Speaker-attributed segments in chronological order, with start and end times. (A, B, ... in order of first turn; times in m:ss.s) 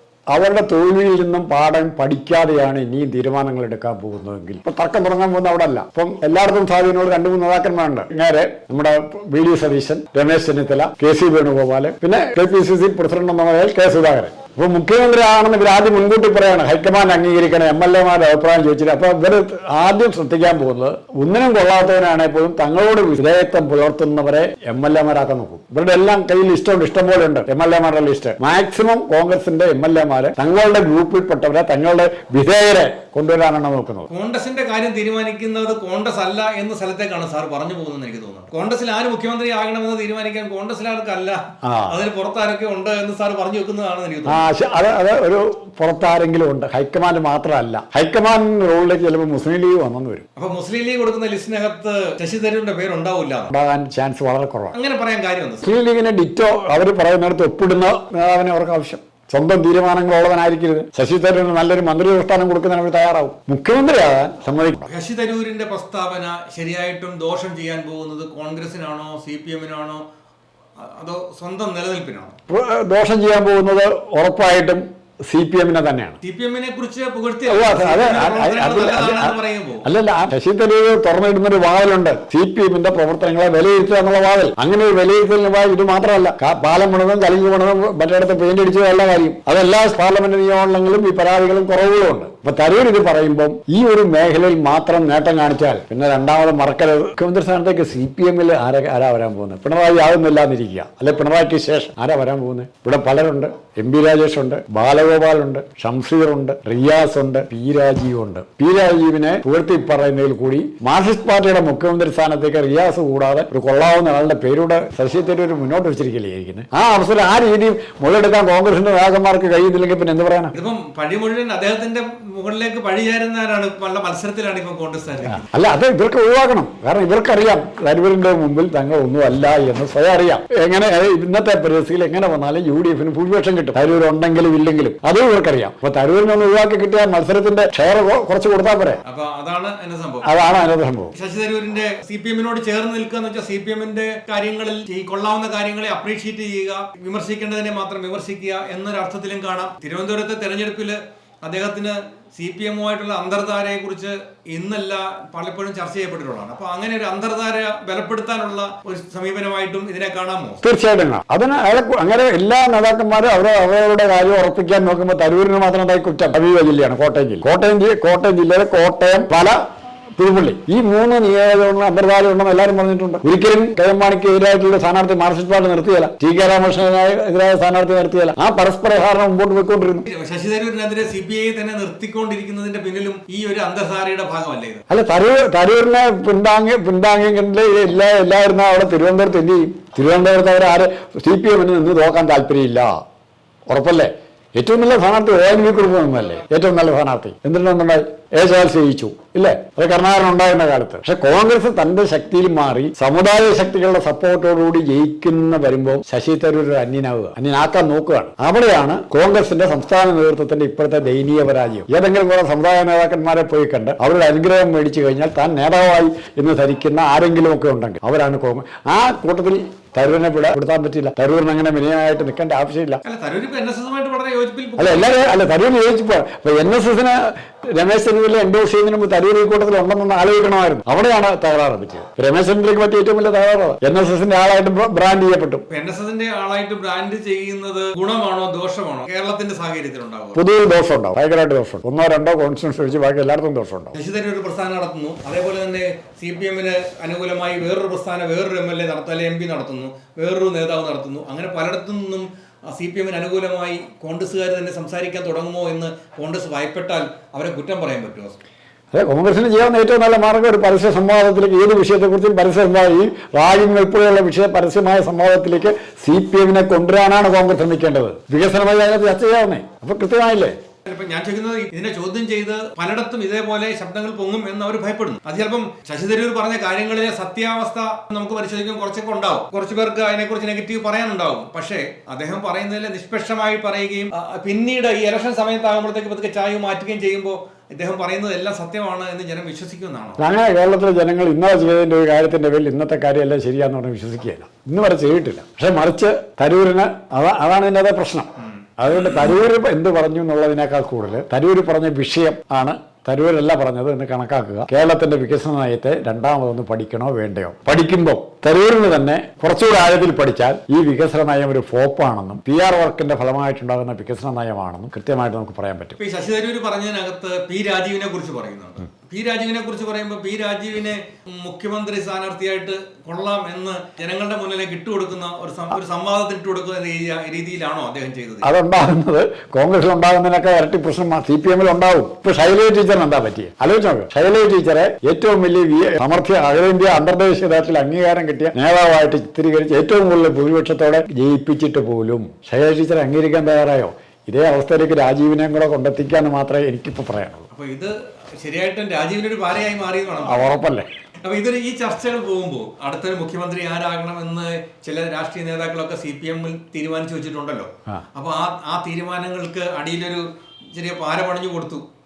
0:00.3-0:34.1 A
0:34.1-0:44.5 B
0:41.6-0:42.0 A
0:44.3-0:50.2 A
0:50.4-0:53.5 B
0:53.5-0:54.7 A
0:54.7-0:55.7 B
0:55.6-1:04.9 A
1:04.9-1:10.0 B
1:10.8-1:12.4 B
1:12.5-1:16.2 A
1:16.2-1:19.9 B
1:17.5-2:00.6 A
2:00.5-2:05.4 B
2:05.3-2:19.0 A
2:19.1-2:20.3 B
2:20.3-2:21.1 A
2:21.1-2:40.6 B
2:40.6-2:49.6 A
2:50.2-3:00.1 A
3:00.1-3:04.8 B
3:04.9-3:13.0 A
3:13.7-3:43.0 A
3:43.0-3:45.2 B
3:44.8-3:55.7 A
3:55.7-4:00.4 B
4:00.4-4:03.9 A
4:03.9-4:18.4 B
4:18.9-4:30.6 A
4:30.9-4:50.2 B
4:50.2-5:16.0 A
4:58.9-4:59.3 B
5:16.0-5:28.5 B
5:28.4-5:47.5 A
5:47.5-5:50.6 B
5:50.2-5:50.9 A
5:51.2-6:01.8 B